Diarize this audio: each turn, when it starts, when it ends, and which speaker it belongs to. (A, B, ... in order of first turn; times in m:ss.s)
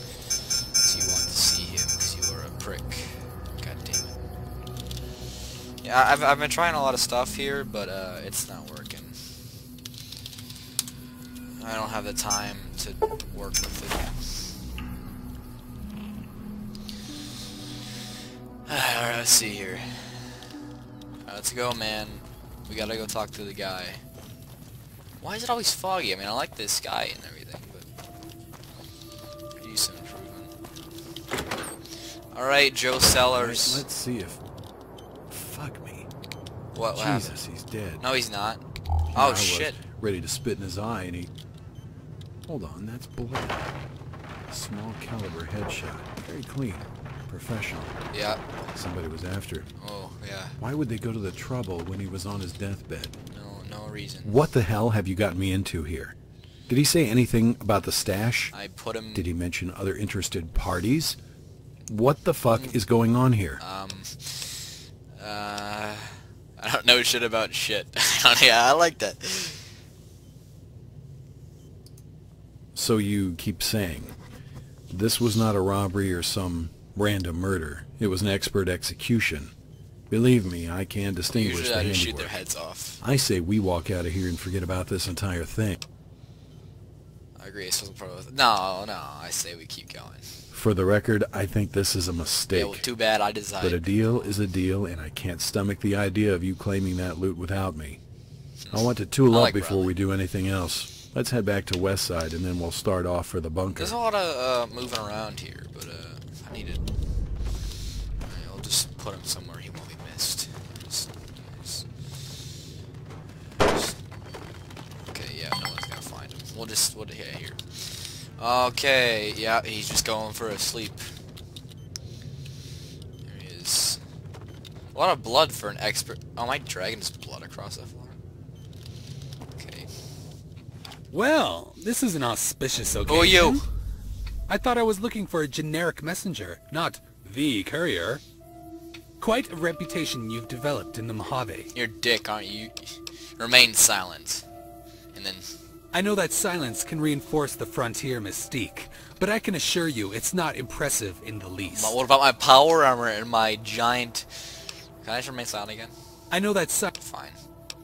0:00.8-0:04.2 A
0:05.8-0:09.2 A
0:11.6-0:14.4 A
0:18.7-0:20.4 A
0:21.2-0:24.0 A
0:25.2-0:27.9 A
0:29.6-0:30.5 A
0:32.3-0:33.8 A
0:33.3-0:34.4 B
0:35.3-0:36.1 B
0:36.7-0:37.4 A
0:36.9-0:38.0 B
0:38.0-0:38.6 A
0:39.1-0:41.3 B
0:39.1-0:39.8 A
0:42.5-0:43.7 B
0:44.5-0:48.0 B
0:48.1-0:48.4 A
0:48.7-0:49.7 B
0:49.8-0:50.6 A
0:50.6-0:53.2 B
0:53.3-0:54.4 A
0:54.2-0:56.1 B
0:56.7-0:58.5 B
0:58.5-0:59.3 A
0:59.1-1:01.2 B
1:01.9-1:03.6 B
1:02.5-1:02.8 A
1:03.6-1:09.6 A
1:12.7-1:14.2 B
1:14.9-1:19.5 B
1:20.1-1:22.4 B
1:21.3-1:23.0 A
1:23.0-1:25.8 B
1:27.4-1:30.2 A
1:30.5-1:32.8 B
1:32.5-1:34.4 A
1:33.6-1:38.0 B
1:38.6-1:39.9 A
1:38.7-1:44.0 B
1:43.8-1:46.8 A
1:48.2-1:51.9 A
1:53.5-1:54.0 A
1:55.1-2:01.0 A
2:03.2-2:04.0 A
2:04.9-2:08.2 A
2:09.6-2:09.9 A
2:11.1-2:13.6 C
2:13.0-2:13.6 A
2:14.5-2:18.2 C
2:19.2-2:21.7 C
2:21.7-2:24.4 A
2:25.1-2:25.5 A
2:25.9-2:32.0 C
2:31.7-2:34.4 A
2:35.0-2:35.9 A
2:36.3-2:36.9 C
2:36.9-2:37.4 A